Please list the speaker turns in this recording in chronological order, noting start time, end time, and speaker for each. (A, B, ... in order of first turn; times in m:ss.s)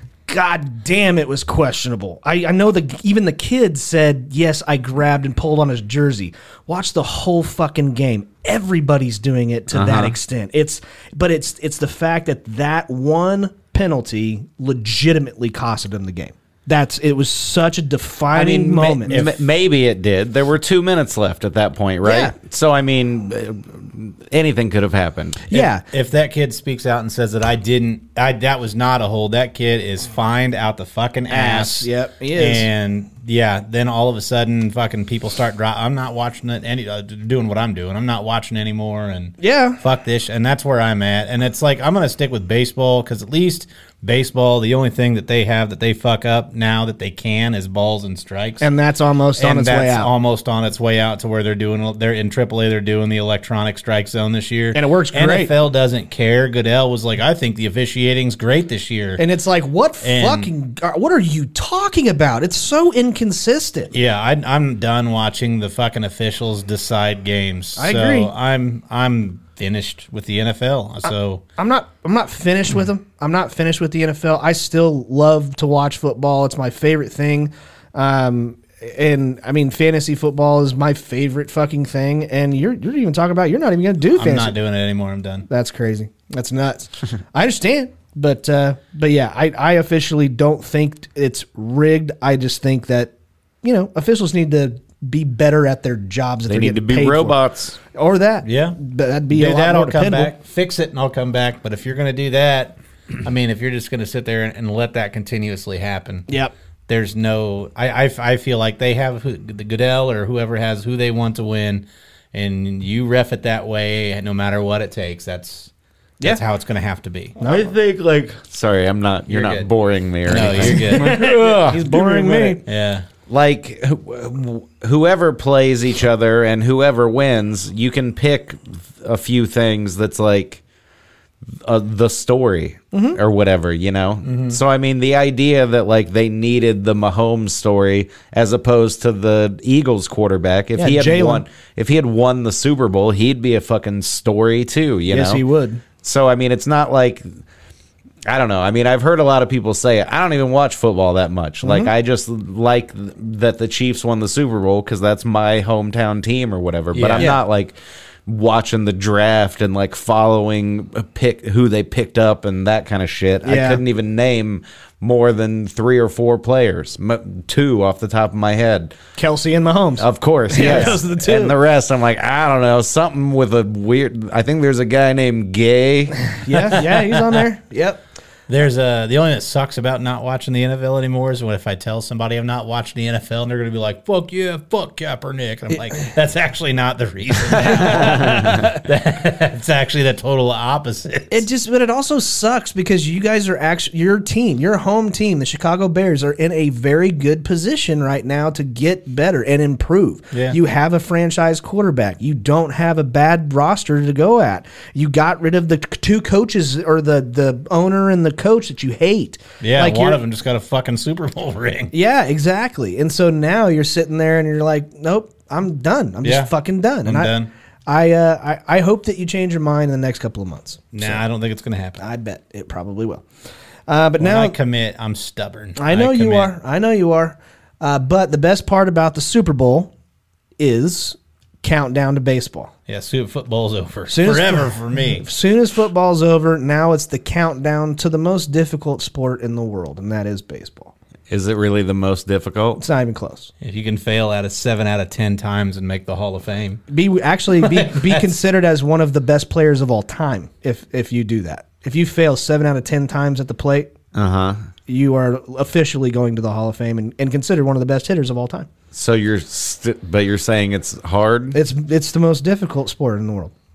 0:00.3-0:19.3 A
0:09.7-0:10.2 B
0:18.3-0:25.5 B
0:19.1-0:19.4 C
0:22.0-0:22.3 A
0:25.5-0:25.8 A
0:25.5-0:48.6 C
0:31.3-0:32.7 A
0:39.4-0:39.8 A
0:48.6-0:50.1 A
0:49.4-0:59.2 C
0:54.7-0:55.5 A
0:59.2-1:03.9 A
1:00.0-1:00.5 C
1:03.9-1:11.4 C
1:07.8-1:08.3 A
1:11.6-1:24.6 A
1:24.1-1:25.5 C
1:25.5-1:33.1 A
1:33.6-1:40.3 A
1:36.5-1:37.8 B
1:38.4-1:38.8 C
1:39.3-1:46.3 C
1:46.9-1:57.3 C
1:57.4-1:57.7 A
1:57.4-2:02.6 B
1:59.3-1:59.7 C
2:00.2-2:01.4 C
2:00.7-2:02.6 A
2:02.6-2:03.0 C
2:03.3-2:10.6 B
2:11.6-2:25.4 B
2:12.9-2:13.2 A
2:14.2-2:14.6 C
2:20.8-2:21.4 A
2:25.1-2:25.8 A
2:26.0-2:27.4 B
2:28.3-2:49.0 B
2:31.6-2:31.9 A
2:36.9-2:37.3 C
2:37.2-2:37.4 A
2:43.4-2:43.8 A
2:49.2-2:51.6 A
2:50.0-2:56.4 B
2:50.6-2:50.9 C
2:56.4-2:58.0 A
2:58.5-3:11.4 C
3:07.7-3:08.6 B
3:07.8-3:08.6 A
3:11.3-3:30.2 A
3:29.6-3:31.9 C
3:31.9-3:37.3 A
3:36.2-3:36.5 C
3:37.0-3:37.5 C
3:37.9-3:41.2 A
3:40.9-3:42.0 C
3:42.0-3:43.2 A
3:43.9-3:44.6 A
3:44.2-3:46.5 C
3:45.8-3:49.9 A
3:50.6-3:52.7 A
3:52.9-3:55.3 C
3:54.1-4:00.9 A
4:01.3-4:02.8 B
4:02.8-4:03.5 A
4:03.6-4:06.8 C
4:06.9-4:13.9 A
4:07.6-4:08.3 C
4:14.1-4:14.6 B
4:14.9-4:18.7 A
4:18.9-4:21.6 B
4:21.5-4:23.5 A